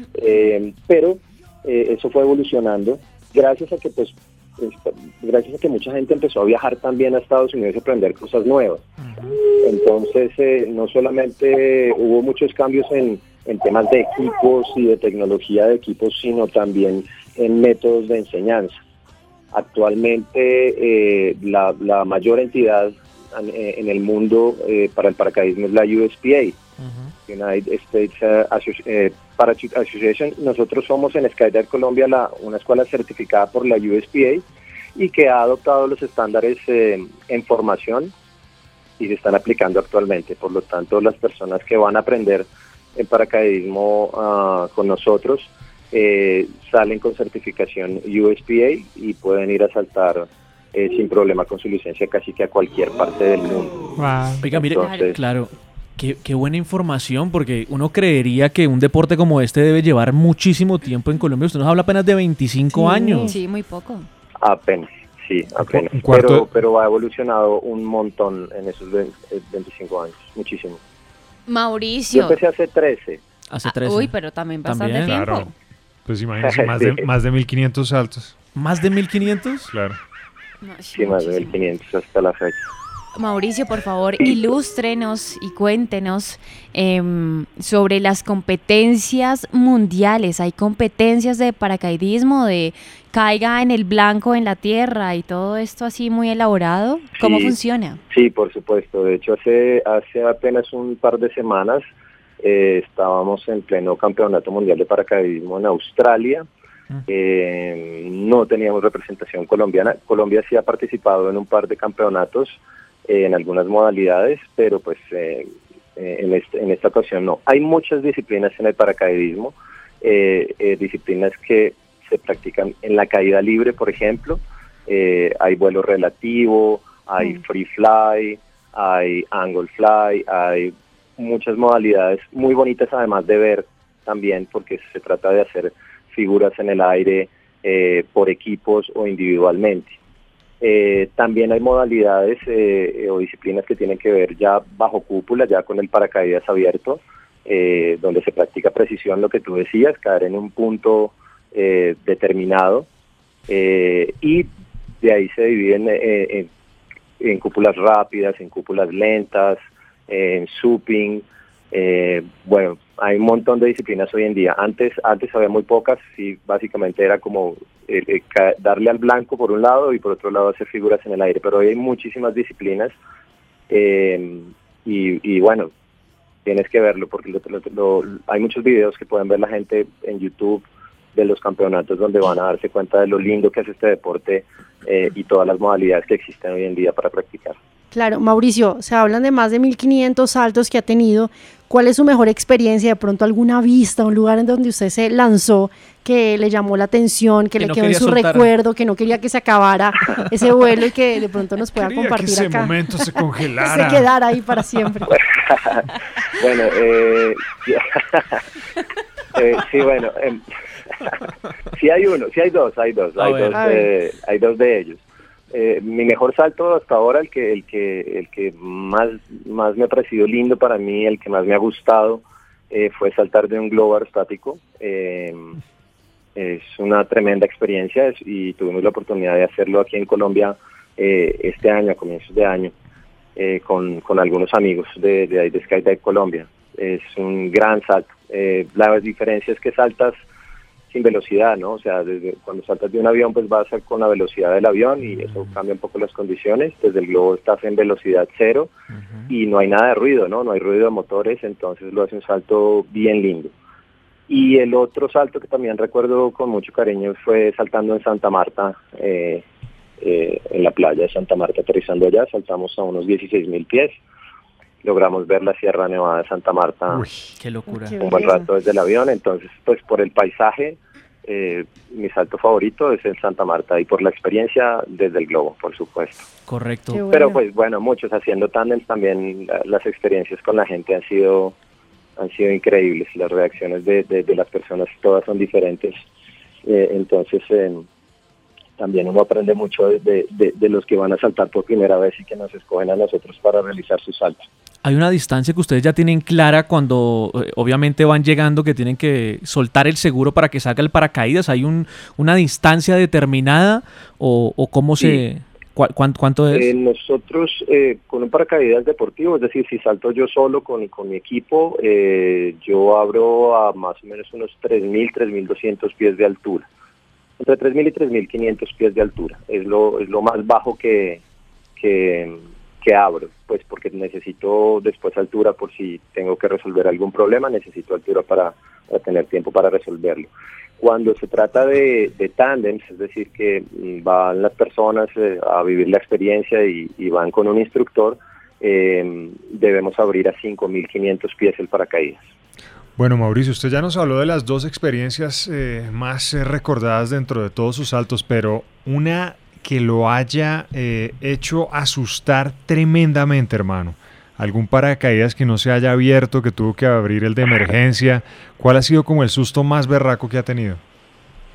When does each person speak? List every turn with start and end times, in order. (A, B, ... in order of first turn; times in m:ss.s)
0:00.2-0:08.8 A
0:09.0-0:09.4 B
0:09.6-0:18.7 A
0:19.5-0:26.6 A
0:26.8-0:27.1 B
0:27.3-0:34.4 A
0:35.0-0:38.1 A
0:39.0-0:53.8 A
0:54.0-0:54.4 C
0:54.4-1:03.3 B
0:54.5-0:55.2 A
0:54.8-0:55.1 D
1:02.7-1:03.4 E
1:03.2-1:04.1 D
1:04.4-1:10.8 A
1:05.6-1:06.4 C
1:11.5-1:12.4 D
1:12.1-1:13.2 A
1:13.5-1:14.1 B
1:13.6-1:15.5 D
1:14.6-1:15.2 B
1:15.0-1:15.5 C
1:16.1-1:18.3 C
1:16.4-1:17.0 A
1:18.5-1:19.7 B
1:19.7-1:20.0 C
1:20.6-1:21.5 D
1:20.9-1:22.6 A
1:23.2-1:38.0 D
1:37.2-1:37.6 A
1:38.1-1:41.8 A
1:42.4-1:46.4 A
1:47.1-2:20.0 A
2:20.6-2:32.8 A
2:33.5-2:34.5 A
2:35.0-2:36.5 A
2:37.2-2:52.9 A
2:53.7-2:55.7 A
2:56.4-3:07.6 A
3:07.9-3:22.8 E
3:17.6-3:18.5 B
3:21.7-3:24.1 C
3:23.6-3:25.1 E
3:25.1-3:25.9 A
3:26.4-3:28.4 A
3:29.3-3:30.4 A
3:31.8-3:45.5 A
3:33.2-3:33.6 B
3:33.5-3:33.9 E
3:46.4-3:52.7 A
3:53.4-4:00.2 A
4:00.9-4:08.7 A
4:05.1-4:05.5 C
4:08.9-4:09.3 B
4:09.3-4:13.5 A
4:14.3-4:19.4 A
4:20.0-4:24.0 A
4:24.8-4:27.0 A
4:26.9-4:27.3 C
4:27.4-4:28.0 B
4:27.7-4:28.5 E
4:28.0-4:36.2 A
4:36.5-4:37.0 B
4:36.9-4:37.4 E
4:37.1-4:41.5 A
4:42.2-4:46.0 A
4:46.6-4:47.8 A
4:48.8-4:54.4 A
4:54.8-5:06.7 B
5:06.5-5:16.6 A
5:17.4-5:21.2 A
5:21.8-5:30.3 A
5:30.8-5:42.3 A
5:43.0-6:00.8 C